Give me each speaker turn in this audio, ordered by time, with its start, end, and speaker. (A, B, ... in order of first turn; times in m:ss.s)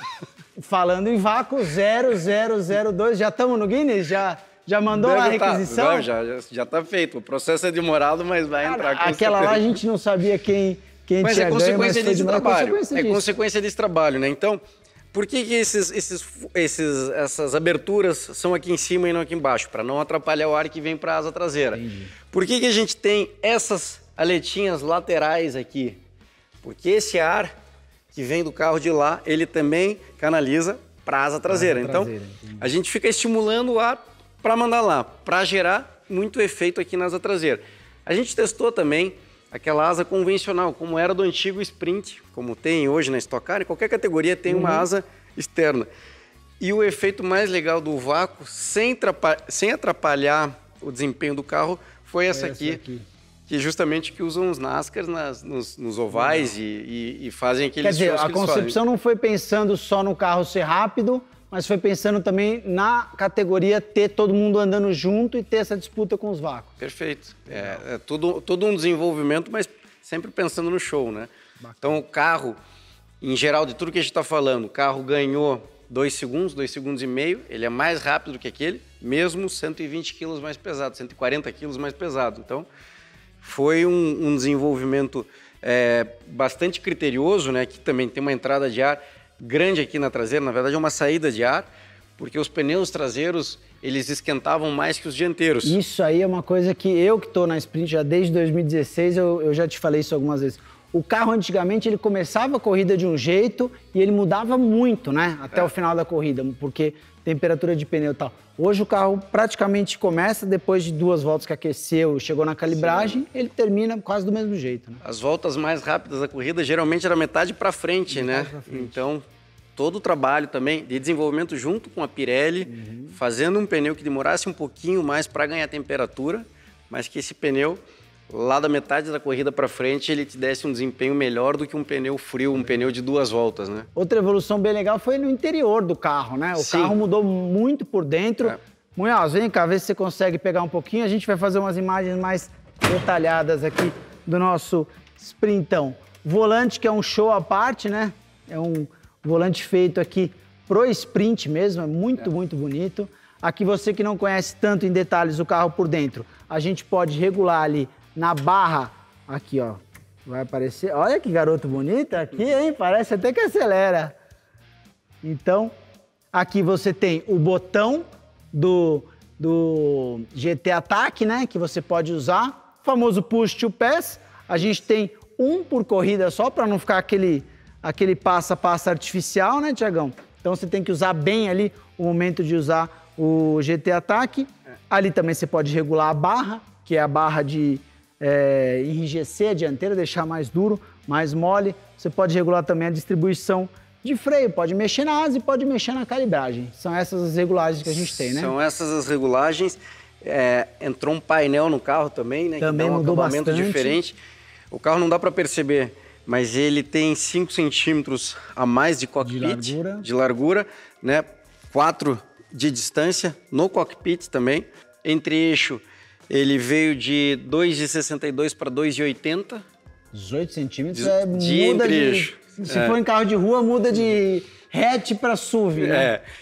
0:00.6-0:06.1 A
0:04.9-0:09.8 B
0:08.6-0:13.3 A
0:11.2-0:14.6 B
0:15.1-0:26.0 B
0:21.7-0:22.1 A
0:26.6-0:27.5 B
0:28.1-0:45.9 B
0:31.5-0:32.7 A
0:44.5-0:44.9 A
0:46.6-0:52.8 B
0:52.3-0:53.0 A
0:53.5-0:58.8 B
0:56.1-0:56.5 A
0:57.8-1:06.7 A
1:06.8-1:11.3 B
1:07.5-1:07.8 A
1:11.6-1:12.0 A
1:11.8-1:12.6 B
1:13.2-1:22.7 B
1:23.4-1:35.8 B
1:35.6-1:55.0 A
1:52.7-1:53.2 B
1:55.0-1:59.2 B
1:58.1-1:59.0 A
1:59.8-2:13.9 B
2:02.6-2:03.2 A
2:13.9-2:44.2 A
2:16.5-2:17.0 B
2:45.2-2:45.7 A
2:46.3-3:18.5 A
3:17.8-3:24.2 B
3:22.6-3:24.0 A
3:24.7-3:39.6 B
3:29.2-3:30.1 A
3:40.1-3:46.1 A
3:40.9-3:43.0 B
3:45.8-3:46.2 B